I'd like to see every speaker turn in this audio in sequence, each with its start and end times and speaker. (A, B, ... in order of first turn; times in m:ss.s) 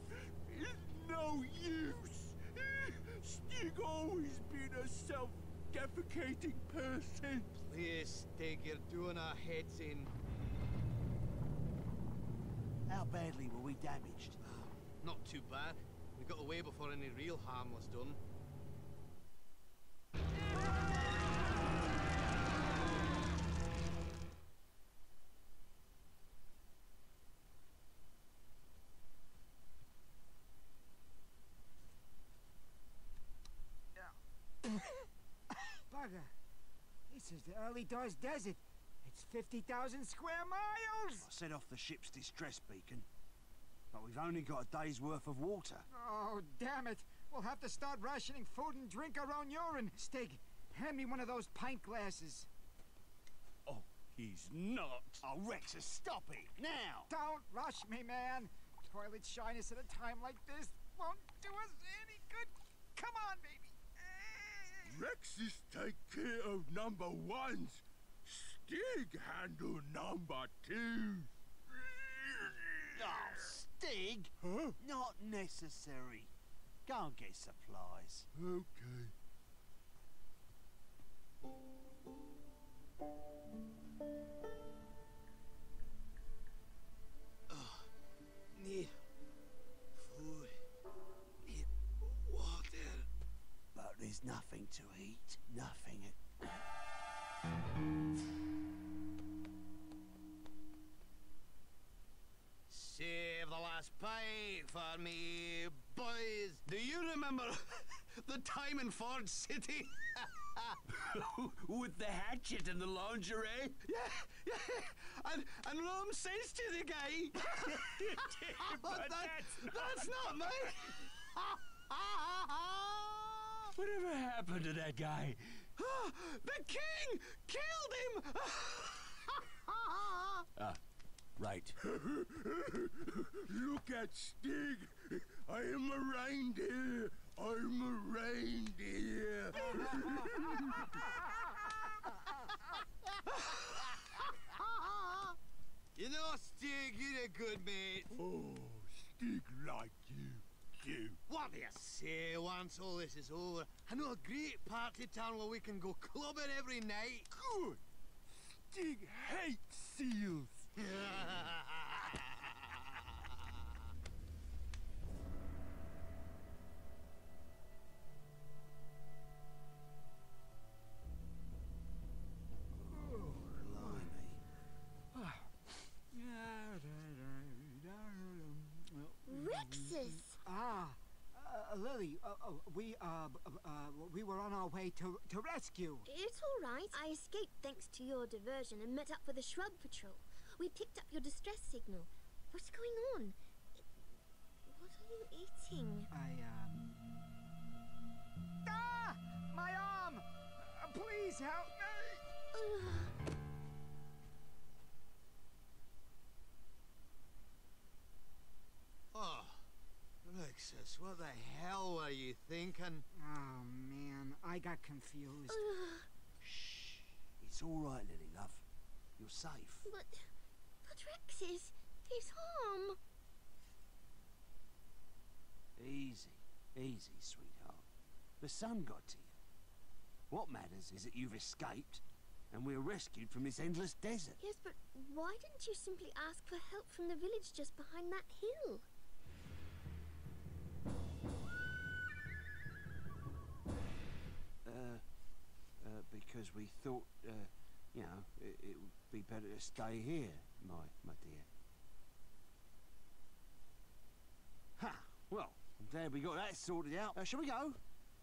0:00.3-0:07.5 A
0:07.5-0:10.1 B
0:12.9-0:14.4 C
0:14.4-0:18.2 B
0:35.9-0:36.3 D
0:37.1-0:41.3 D
0:41.2-0:43.1 C
0:43.9-0:45.9 C
0:45.9-0:52.5 D
0:53.7-0:55.2 E
0:55.2-0:57.1 C
0:57.1-1:05.0 D
1:04.9-1:13.5 A
1:13.0-1:16.3 C
1:14.4-1:14.8 A
1:16.9-1:18.3 C
1:18.3-1:19.1 A
1:27.5-1:27.9 B
1:28.6-1:29.0 B
1:30.0-1:30.6 B
1:31.4-1:33.1 B
1:33.7-1:36.6 C
1:42.7-1:50.8 B
1:51.4-1:53.4 E
1:53.8-2:03.7 B
1:59.1-1:59.5 E
2:05.8-2:10.3 B
2:11.8-2:21.0 A
2:23.3-2:25.3 B
2:26.0-2:28.1 B
2:28.1-2:31.2 A
2:31.3-2:37.3 B
2:37.3-2:37.8 A
2:38.7-2:40.6 A
2:40.8-2:42.9 B
2:52.9-2:54.1 D
2:53.5-2:54.4 C
2:55.1-2:55.5 D
2:56.1-3:06.1 D
2:59.2-3:00.4 F
3:06.1-3:14.0 F
3:14.7-3:16.1 F
3:16.1-3:16.8 D
3:18.6-3:22.2 D
3:22.5-3:23.1 F
3:29.1-3:29.7 B
3:30.2-3:33.0 B
3:33.2-3:35.6 D
3:35.5-3:36.1 F
3:36.4-3:38.6 C
3:39.2-3:39.9 C
3:39.8-3:40.3 F
3:40.8-3:43.0 F
3:45.8-3:47.8 C
3:48.4-3:49.3 C
3:50.3-3:54.4 C
3:54.4-3:58.8 F
4:04.6-4:05.0 C
4:05.8-4:11.5 C
4:14.8-4:17.8 C